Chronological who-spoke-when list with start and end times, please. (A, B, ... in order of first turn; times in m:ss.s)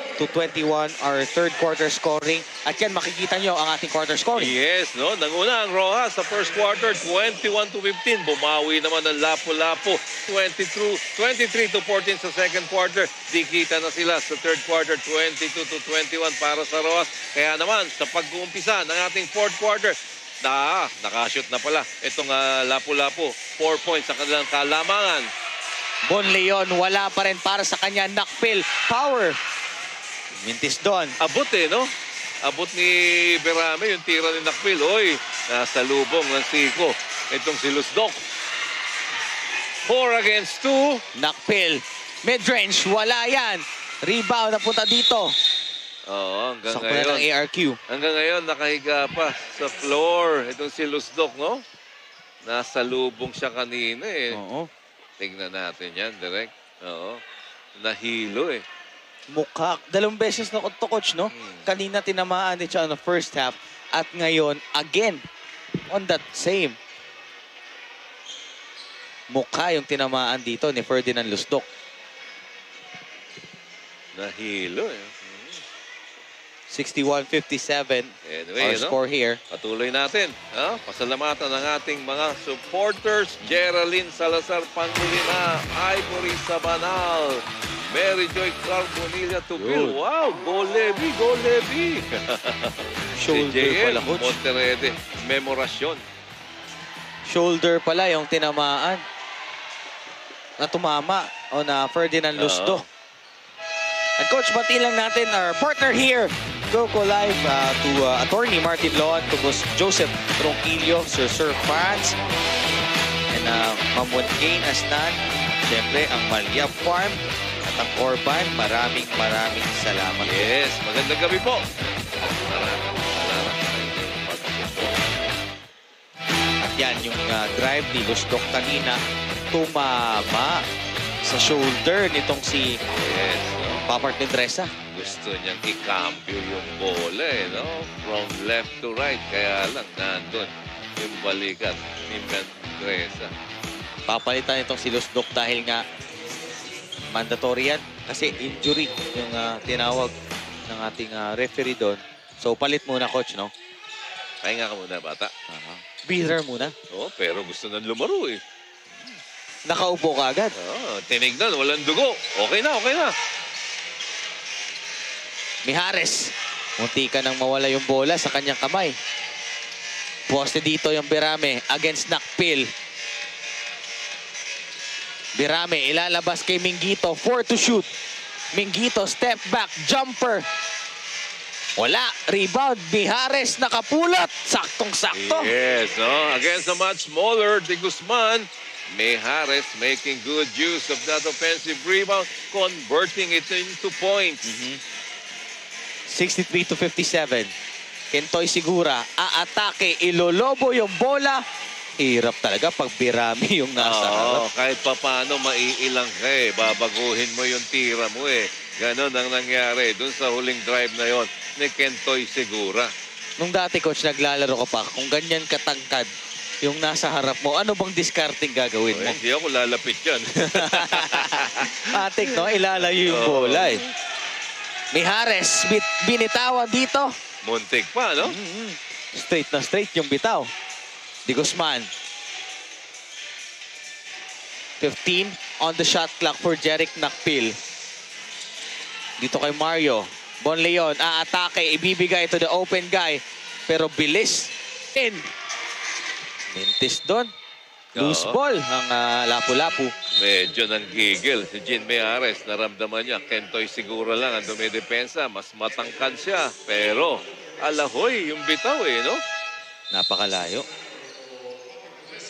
0:00.2-0:04.5 A
0:04.4-0:25.3 B
0:26.1-0:29.4 A
0:30.4-0:31.1 A
0:31.2-0:31.9 B
0:32.4-0:38.2 B
0:39.9-0:41.0 B
0:41.2-0:45.3 A
0:46.1-0:47.2 B
0:46.7-0:47.8 A
0:47.9-0:51.6 B
0:52.4-0:54.4 B
0:54.3-0:54.7 A
0:55.2-0:57.2 B
0:57.8-0:58.6 B
0:59.3-1:05.2 A
1:01.3-1:01.6 B
1:05.9-1:06.8 A
1:09.3-1:11.7 A
1:14.2-1:15.6 B
1:16.7-1:19.4 A
1:18.2-1:19.0 B
1:19.5-1:36.0 B
1:29.6-1:30.0 A
1:33.2-1:34.4 A
1:37.2-1:39.0 A
1:40.6-1:42.8 A
1:42.4-1:42.8 B
1:44.2-1:52.2 A
1:53.3-2:00.5 A
2:00.2-2:01.6 B
2:02.2-2:05.4 B
2:06.6-2:09.0 A
2:09.5-2:10.6 A
2:11.2-2:12.8 A
2:12.9-2:13.8 B
2:13.9-2:14.7 A
2:14.9-2:23.3 B
2:24.1-2:25.8 A
2:27.1-2:30.1 A
2:30.7-2:33.5 A
2:34.4-2:35.3 B
2:35.5-2:36.8 A
2:36.9-2:38.4 B
2:39.7-2:40.5 A
2:40.6-2:43.1 B
2:45.6-2:49.0 A
2:50.3-2:52.7 A
2:55.4-2:57.9 A
2:58.6-3:00.4 A
3:01.8-3:05.5 A
3:05.1-3:14.4 B
3:14.4-3:14.8 A
3:16.1-3:17.5 A
3:18.1-3:21.4 A
3:22.0-3:24.4 A
3:23.8-3:32.9 B
3:33.4-3:36.1 A
3:36.6-3:39.2 A
3:38.9-3:41.8 B
3:40.5-3:43.8 A
3:43.0-3:43.9 B
3:44.9-3:47.1 A
3:47.4-3:48.4 B
3:48.2-3:50.5 A
3:51.3-3:51.9 A
3:54.8-3:57.6 A
3:59.2-4:05.3 A
4:06.5-4:07.3 A
4:08.0-4:09.9 A
4:08.0-4:08.4 B
4:10.1-4:19.2 B
4:19.9-4:20.7 A